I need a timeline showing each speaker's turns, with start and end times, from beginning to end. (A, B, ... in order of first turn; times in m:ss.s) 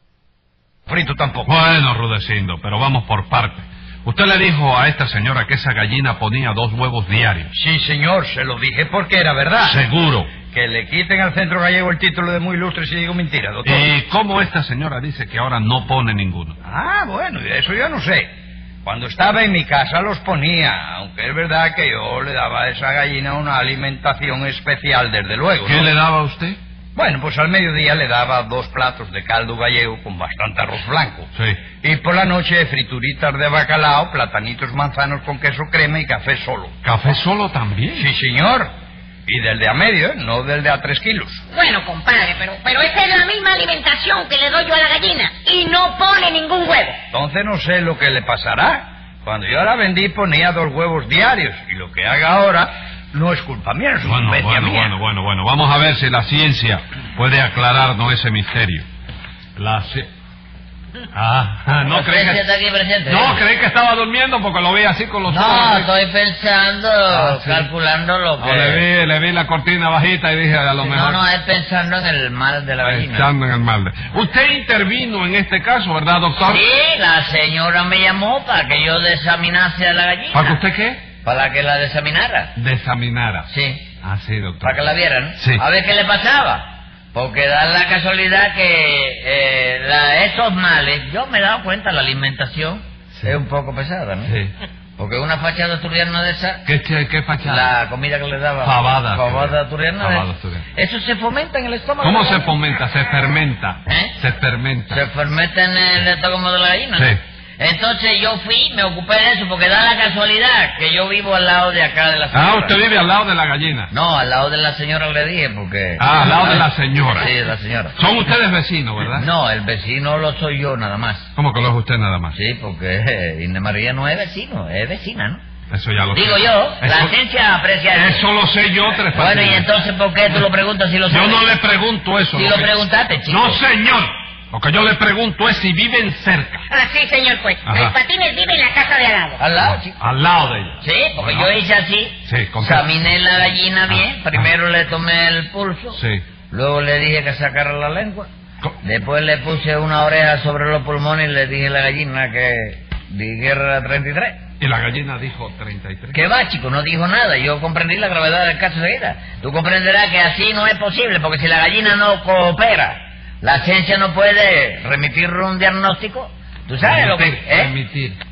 0:00.9-0:01.5 A
0:01.5-0:07.5 B
0:07.5-0:09.8 A
0:09.6-0:10.3 B
0:10.5-0:13.9 A
0:13.6-0:16.6 B
0:16.6-0:18.3 A
0:18.8-0:25.9 A
0:25.6-0:26.6 B
0:27.0-0:31.3 A
0:31.4-0:31.6 B
0:31.8-0:36.7 A
0:36.8-0:38.1 B
0:37.9-0:38.7 A
0:39.3-0:41.4 A
0:41.5-0:47.0 C
0:47.1-0:55.0 A
0:54.0-0:58.9 B
0:59.6-1:00.1 B
1:01.1-1:02.5 B
1:01.9-1:03.4 D
1:03.1-1:05.9 B
1:05.3-1:08.8 D
1:07.1-1:07.7 B
1:08.4-1:11.2 B
1:10.8-1:13.3 D
1:12.8-1:16.6 B
1:16.4-1:20.6 D
1:20.3-1:21.0 B
1:21.2-1:22.5 D
1:22.6-1:23.5 B
1:23.5-1:23.8 D
1:24.0-1:25.6 B
1:24.6-1:34.3 D
1:34.2-1:34.5 B
1:35.0-1:36.6 D
1:36.7-1:37.7 B
1:37.4-1:42.5 D
1:38.6-1:40.6 B
1:42.0-1:45.0 B
1:43.9-1:44.1 D
1:44.9-1:52.8 D
1:52.3-1:53.9 B
1:53.9-1:58.0 D
1:56.0-1:57.3 B
1:58.0-1:59.3 B
1:59.1-2:01.3 D
2:01.4-2:02.4 B
2:02.3-2:05.4 D
2:05.7-2:07.1 B
2:06.1-2:08.2 D
2:07.9-2:09.7 B
2:09.1-2:11.5 D
2:11.1-2:12.7 B
2:12.3-2:13.6 D
2:13.3-2:16.6 B
2:16.7-2:19.4 C
2:17.6-2:18.0 B
2:19.4-2:20.0 D
2:19.6-2:21.5 B
2:20.8-2:26.0 D
2:22.2-2:22.9 B
2:23.9-2:24.5 B
2:26.0-2:26.2 B
2:26.5-2:28.3 D
2:28.8-2:34.4 D
2:34.6-2:36.2 B
2:36.1-2:47.7 D
2:46.8-2:48.2 B